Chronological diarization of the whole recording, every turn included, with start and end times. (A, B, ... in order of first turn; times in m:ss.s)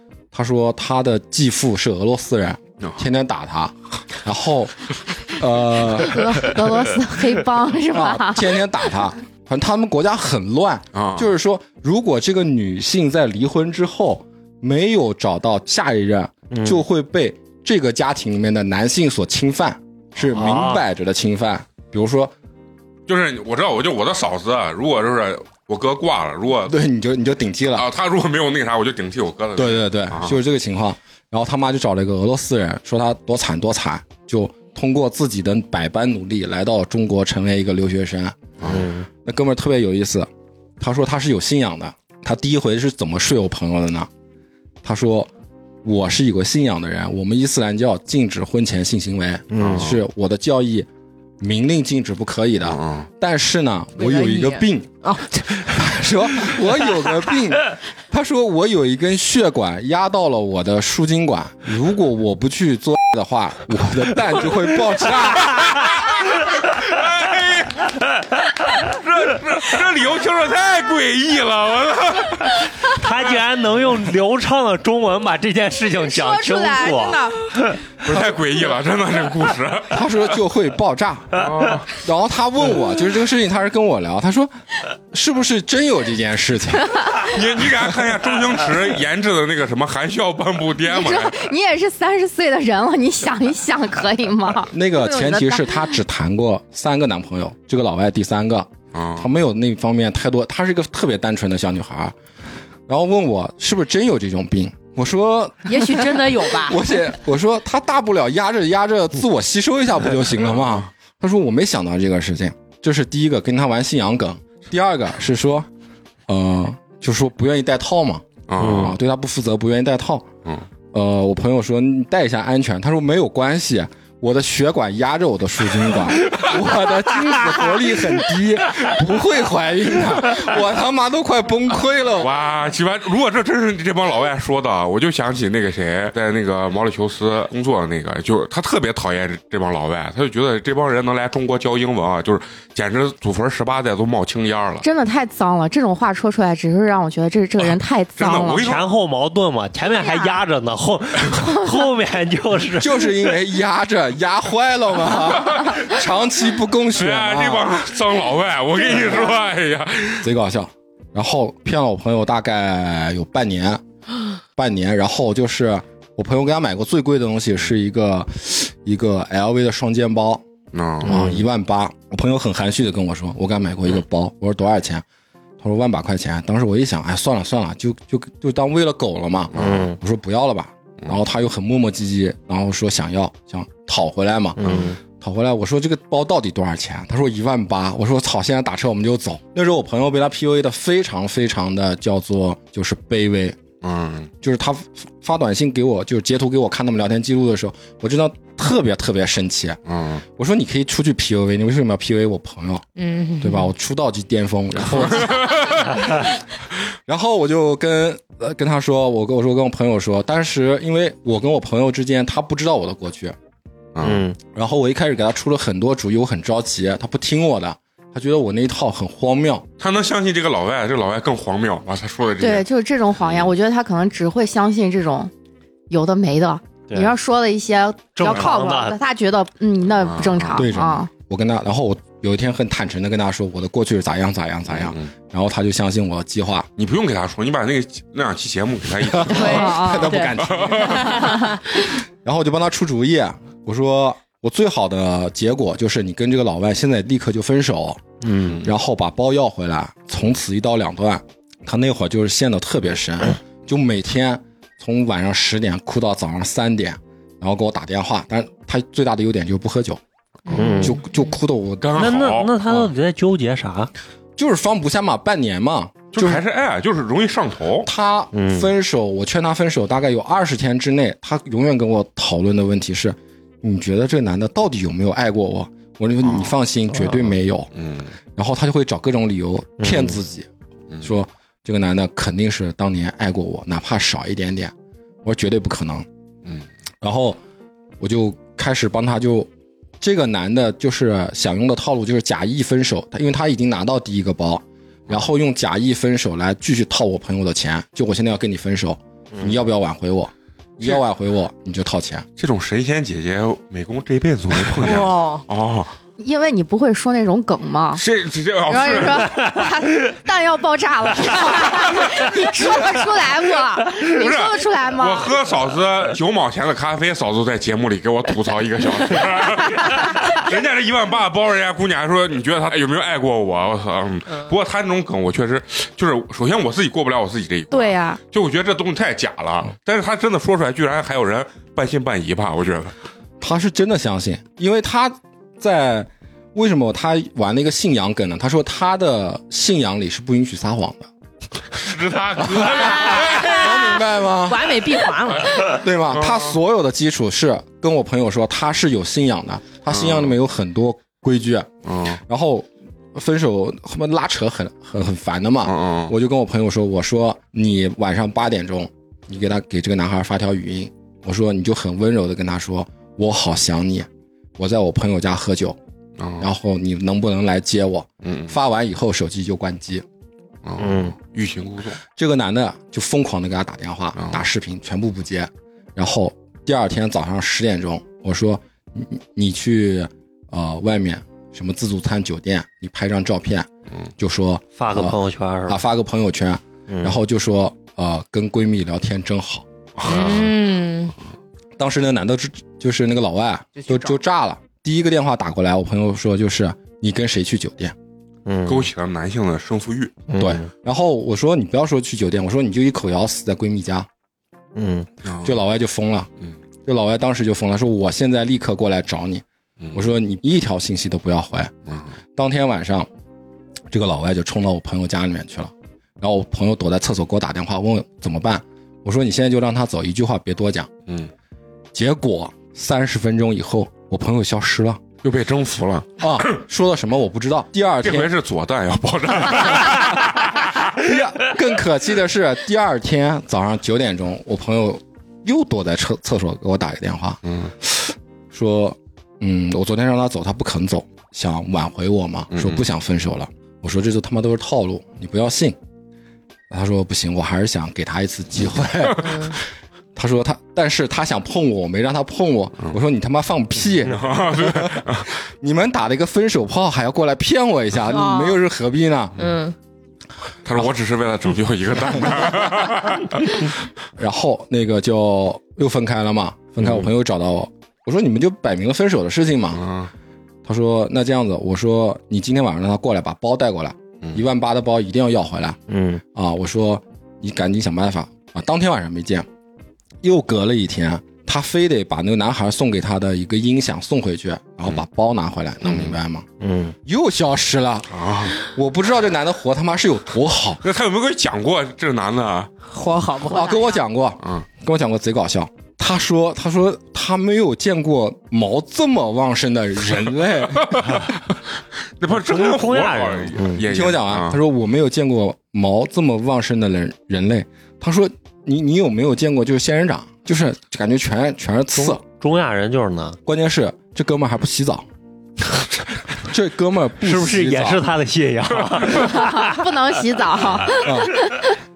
0:00.3-0:06.5 A
0:06.0-0:08.6 B
0:07.9-0:22.3 A
0:10.9-0:11.3 C
0:16.5-0:16.8 D
0:20.3-0:20.8 D
0:23.1-0:26.8 C
0:26.7-0:27.9 A
0:27.8-0:30.4 C
0:29.6-0:38.4 A
0:38.6-0:38.9 C
0:38.6-0:39.1 D
0:39.2-0:40.3 A
0:40.8-0:44.1 A
0:44.8-0:45.3 A
0:45.8-0:50.9 A
0:49.5-0:49.9 D
0:49.6-0:50.0 C
0:51.4-0:54.9 A
0:52.6-0:53.1 C
0:54.0-0:55.8 E
0:55.5-1:06.0 A
1:05.4-1:08.0 C
1:08.7-1:13.0 C
1:12.8-1:17.8 D
1:16.0-1:17.4 B
1:18.0-1:20.1 C
1:19.9-1:24.5 A
1:21.3-1:22.0 C
1:25.1-1:27.2 A
1:27.2-1:31.5 C
1:30.8-1:35.9 B
1:34.7-1:42.1 A
1:38.9-1:39.3 C
1:42.9-1:55.7 A
1:45.7-1:46.8 E
1:56.3-2:00.3 A
1:58.5-1:59.0 C
1:58.6-1:59.0 D
2:00.9-2:12.3 A
2:12.2-2:24.8 C
2:24.8-2:28.7 B
2:28.2-2:28.9 C
2:28.6-2:33.4 D
2:30.0-2:30.4 B
2:31.5-2:31.8 B
2:32.8-2:37.7 A
2:35.5-2:35.8 C
2:37.0-2:40.3 C
2:40.2-2:43.8 A
2:44.5-2:50.4 A
2:50.7-2:51.3 C
2:51.0-2:55.0 A
2:51.0-2:51.4 D
2:55.6-3:04.6 A
2:59.5-2:59.9 C
2:59.5-3:00.0 D
3:04.6-3:05.0 D
3:04.6-3:04.9 C
3:05.1-3:13.6 A
3:13.8-3:14.3 C
3:14.4-3:22.9 A
3:19.9-3:20.2 C
3:23.0-3:23.7 E
3:23.4-3:26.3 A
3:24.9-3:26.2 C
3:27.1-3:33.4 A
3:33.9-3:34.2 C
3:34.0-3:34.4 D
3:34.5-3:39.6 A
3:39.8-3:42.7 C
3:42.4-3:45.3 B
3:43.2-3:43.5 C
3:45.9-3:51.1 B
3:46.9-3:47.1 D
3:48.2-3:49.0 D
3:50.0-3:50.7 C
3:50.6-3:56.7 A
3:54.7-3:55.1 C
3:56.8-3:59.8 C
3:59.0-4:01.3 A
3:59.3-4:00.3 B
3:59.4-4:01.6 E
4:00.4-4:01.2 C
4:00.8-4:01.5 B
4:02.2-4:08.0 A
4:08.2-4:08.6 D
4:08.4-4:08.7 C
4:08.6-4:20.0 A
4:20.5-4:21.0 E
4:20.5-4:21.0 D
4:20.8-4:22.1 A
4:21.8-4:22.9 C
4:22.0-4:23.9 D
4:24.4-4:26.4 A
4:26.1-4:27.9 C
4:27.8-4:37.7 A
4:28.3-4:28.7 D
4:36.2-4:36.5 C
4:37.8-4:38.1 C
4:38.4-4:40.5 A
4:39.8-4:40.2 D
4:41.0-4:46.1 A
4:47.0-4:47.4 A
4:48.0-4:49.5 A
4:50.0-5:02.2 A
5:02.4-5:05.9 C
5:04.8-5:05.4 E
5:06.2-5:08.0 B
5:08.0-5:09.6 C
5:08.6-5:15.3 B
5:11.6-5:12.3 C
5:14.1-5:32.9 C
5:27.7-5:28.2 B
5:33.4-5:41.1 A
5:41.8-5:44.0 C
5:42.4-5:44.8 A
5:43.1-5:43.7 E
5:44.5-5:45.8 E
5:45.4-5:46.6 C
5:45.6-6:05.8 A
5:49.9-5:50.3 C
5:51.8-5:52.2 C
5:55.6-5:56.1 C
6:06.2-6:06.5 C
6:06.4-6:10.0 A
6:08.2-6:08.5 C
6:10.6-6:12.0 C
6:10.8-6:11.1 D
6:12.2-6:29.6 A
6:14.2-6:14.4 C
6:24.8-6:25.8 D
6:26.9-6:27.2 D
6:30.0-6:30.5 C
6:30.1-6:31.1 E
6:30.1-6:30.4 D
6:31.8-6:37.9 A
6:33.8-6:34.2 E
6:38.4-6:38.9 D
6:38.6-6:40.2 C
6:40.3-6:40.7 D
6:40.4-6:44.1 A
6:44.7-6:45.1 D
6:45.2-6:45.6 C
6:45.4-6:46.3 A
6:46.8-6:51.7 A
6:51.9-6:52.1 C
6:52.4-6:53.1 A
6:53.9-7:00.9 A
7:01.9-7:05.0 A
7:05.2-7:06.6 C
7:06.2-7:08.3 A
7:08.0-7:11.0 C
7:11.0-7:25.8 A
7:17.4-7:17.7 C
7:22.5-7:22.8 C
7:26.7-7:29.6 A
7:29.2-7:29.6 E
7:30.2-7:39.4 A
7:34.1-7:35.3 C
7:38.1-7:38.6 E
7:39.4-7:39.7 E
7:40.6-7:43.6 C
7:44.2-7:49.8 A
7:46.8-7:47.1 C
7:49.7-7:50.1 C
7:50.6-7:55.8 A
7:55.9-7:56.2 D
7:56.3-7:59.4 A
8:00.2-8:06.5 A
8:05.9-8:06.2 C
8:06.6-8:06.9 D
8:07.0-8:10.8 A
8:08.1-8:08.6 C
8:10.8-8:12.7 C
8:12.9-8:13.8 E
8:13.4-8:21.2 A
8:13.5-8:14.0 B
8:20.8-8:21.4 C
8:22.2-8:24.6 C
8:22.3-8:23.8 D
8:23.8-8:32.2 A
8:32.0-8:33.4 D
8:33.4-8:35.0 A
8:36.4-8:38.1 A
8:37.2-8:39.9 D
8:39.1-8:41.7 B
8:41.0-8:41.4 A